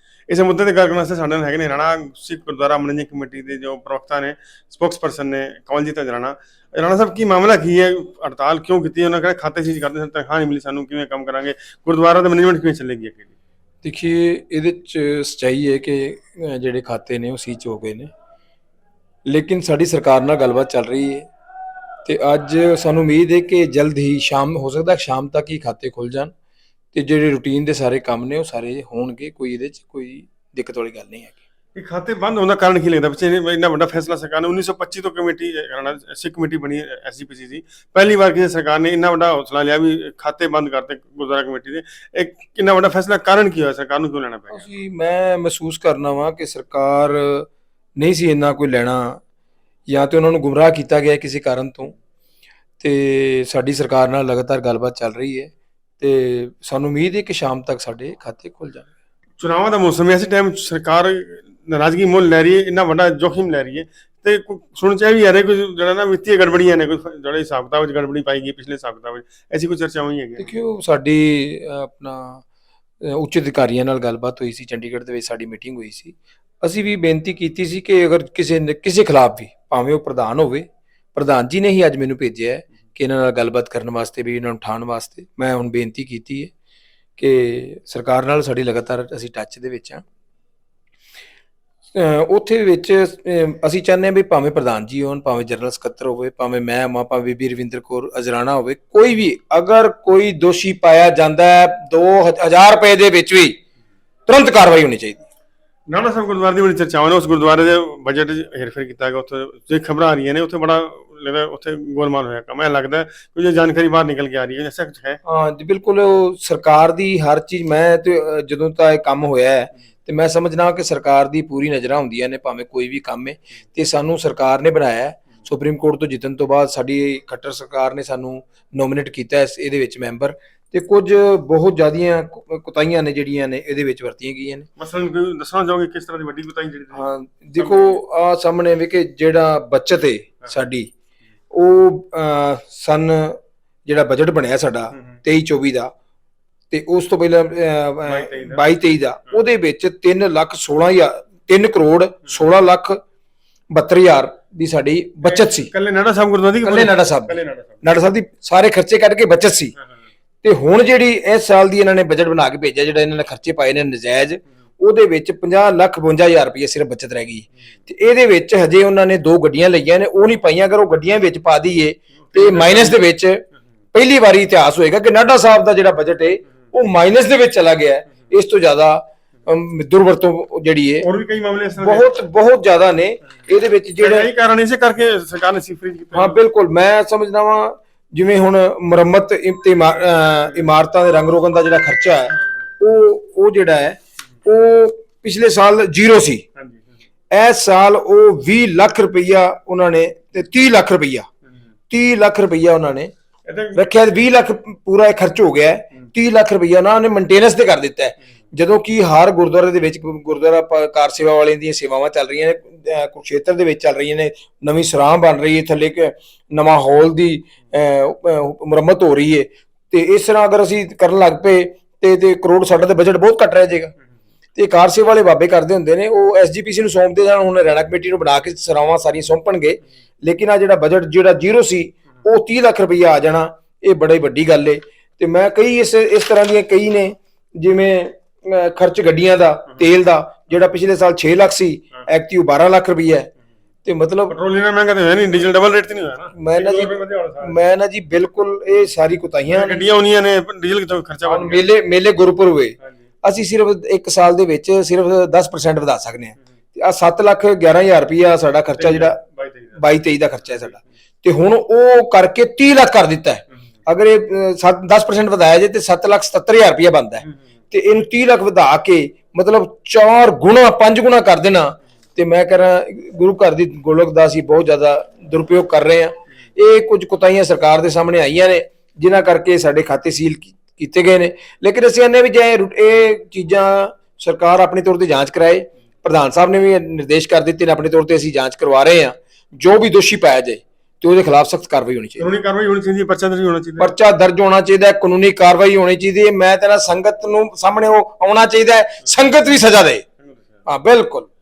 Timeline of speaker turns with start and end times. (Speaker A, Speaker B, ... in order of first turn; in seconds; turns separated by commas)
Speaker A: 0.3-13.3, Speaker B: 13.8-18.1, Speaker B: 19.2-21.3, Speaker B: 22.1-26.3, Speaker B: 26.9-31.4, Speaker A: 31.8-44.7, Speaker B: 44.5-49.2, Speaker B: 49.9-52.0, Speaker B: 52.8-58.9, Speaker A: 59.4-70.5, Speaker B: 70.4-72.4, Speaker B: 73.0-86.5, Speaker B: 87.2-90.0, Speaker B: 91.9-103.6, Speaker B: 104.3-105.2, Speaker A: 105.9-115.2, Speaker B: 115.2-134.7, Speaker A: 134.8-138.0, Speaker B: 136.9-140.9, Speaker B: 141.5-145.9, Speaker A: 144.9-145.2, Speaker B: 146.7-153.0, Speaker A: 148.1-148.7, Speaker B: 153.7-155.7, Speaker A: 155.2-157.8, Speaker B: 156.6-159.7, Speaker B: 160.4-181.1, Speaker A: 172.3-173.0, Speaker A: 181.0-182.1, Speaker B: 181.8-184.3, Speaker A: 184.0-186.4, Speaker B: 186.2-196.4, Speaker A: 196.6-196.8, Speaker B: 197.3-201.3, Speaker B: 201.9-203.1, Speaker A: 203.5-203.8, Speaker B: 203.8-223.9, Speaker B: 224.6-243.3, Speaker B: 243.9-244.3, Speaker A: 244.3-247.6, Speaker B: 246.4-249.8, Speaker A: 249.5-251.7, Speaker B: 251.2-259.2, Speaker A: 258.8-259.9, Speaker B: 259.8-292.3, Speaker A: 260.5-260.8, Speaker A: 292.2-293.9, Speaker B: 293.8-300.1, Speaker A: 300.2-300.6, Speaker B: 300.7-301.3